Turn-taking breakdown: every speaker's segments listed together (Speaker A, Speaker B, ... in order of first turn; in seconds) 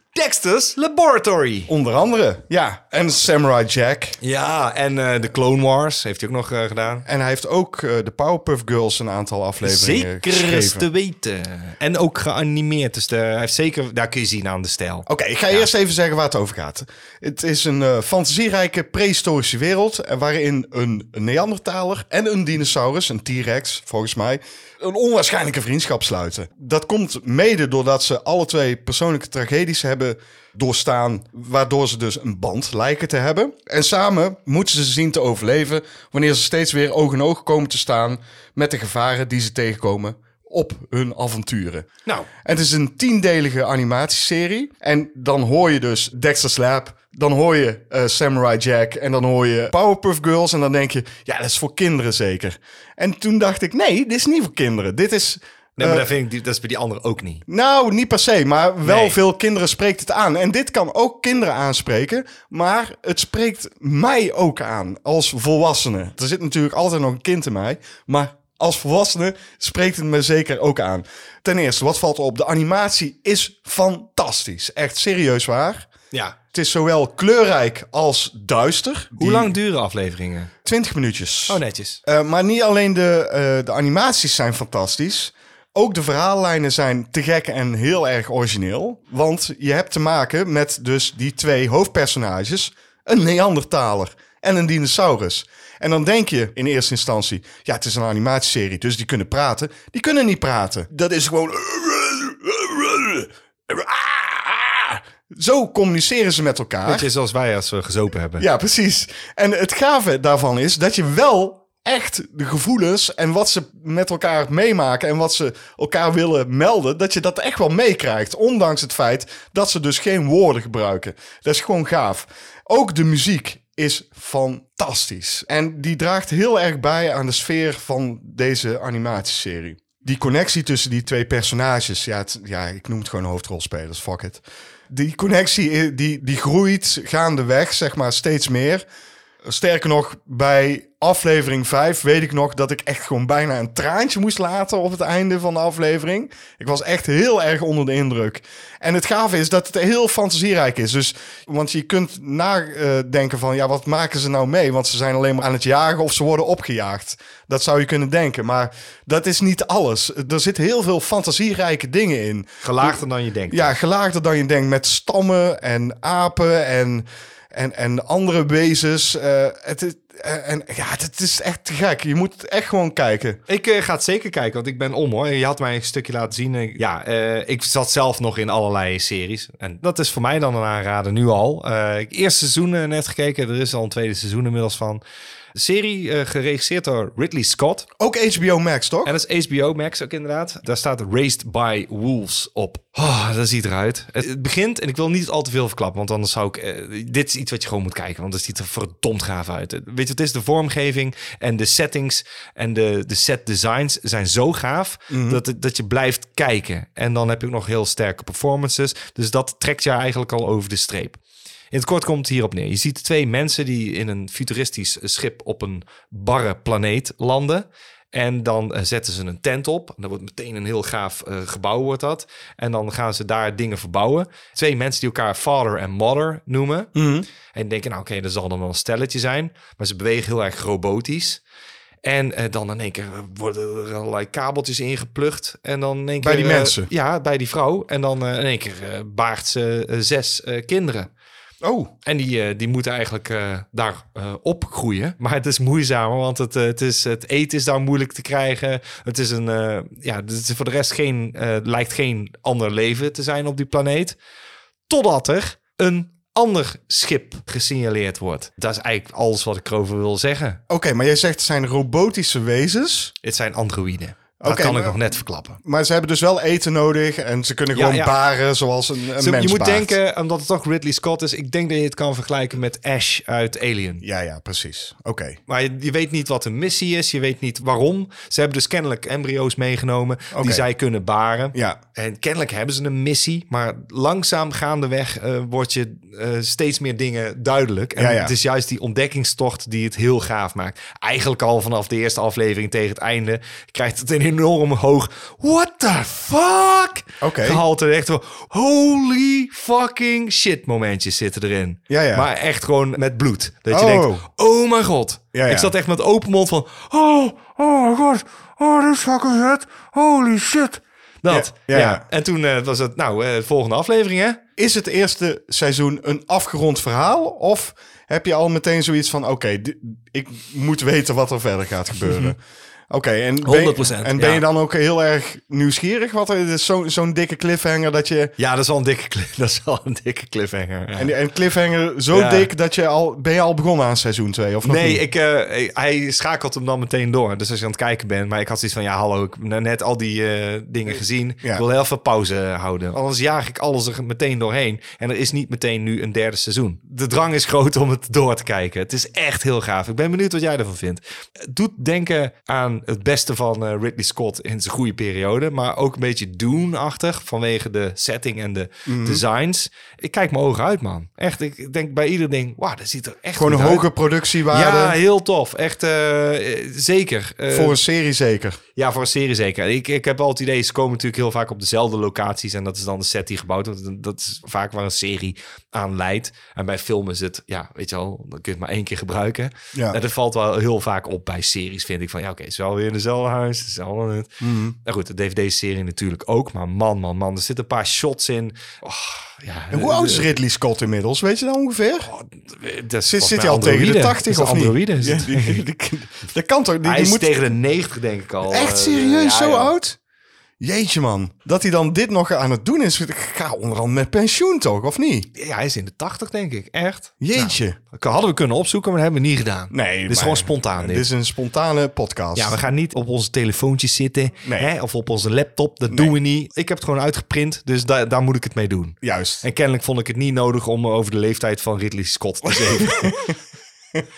Speaker A: 0.1-1.7, 4.2-7.0, 9.6-15.7, 55.8-57.4, 58.8-59.2, 79.2-80.5, 81.5-82.0, 106.9-108.5, 162.6-163.7, 173.5-185.0, 185.5-187.9, 189.1-211.2, 211.7-226.9, 227.5-231.4, 232.0-241.1, 242.1-254.2, 254.9-260.6, 263.2-265.6, 267.7-268.1, 269.2-274.0, 275.5-314.4, 322.0-322.3, 323.4-324.4, 328.4-331.1, 332.1-332.5, 334.6-363.9, 364.5-367.8, 368.8-390.3, 392.1-395.6, 396.8-399.8, 405.4-411.1, 412.4-423.2
Speaker B: 1.7-4.2, 7.1-10.9, 15.1-41.9, 42.4-56.1, 57.5-75.9, 76.5-79.5, 80.7-107.1, 108.4-138.8, 139.4-173.4, 188.0-189.1, 205.1-205.4, 226.9-227.3, 236.2-236.9, 241.6-241.9, 260.7-263.1, 264.4-265.0, 265.6-269.9, 274.0-275.4, 280.3-280.6, 281.5-281.8, 288.0-288.3, 297.2-297.6, 301.9-302.3, 303.7-304.3, 305.3-305.7, 311.3-312.0, 314.6-322.4, 322.9-328.3, 331.0-335.0, 358.9-359.2, 363.4-365.0, 367.5-368.6, 384.4-384.8, 389.7-392.1, 393.1-397.3, 398.5-400.0, 400.6-405.3, 407.2-407.8, 409.7-412.6, 414.4-414.7, 419.0-419.4, 422.9-423.4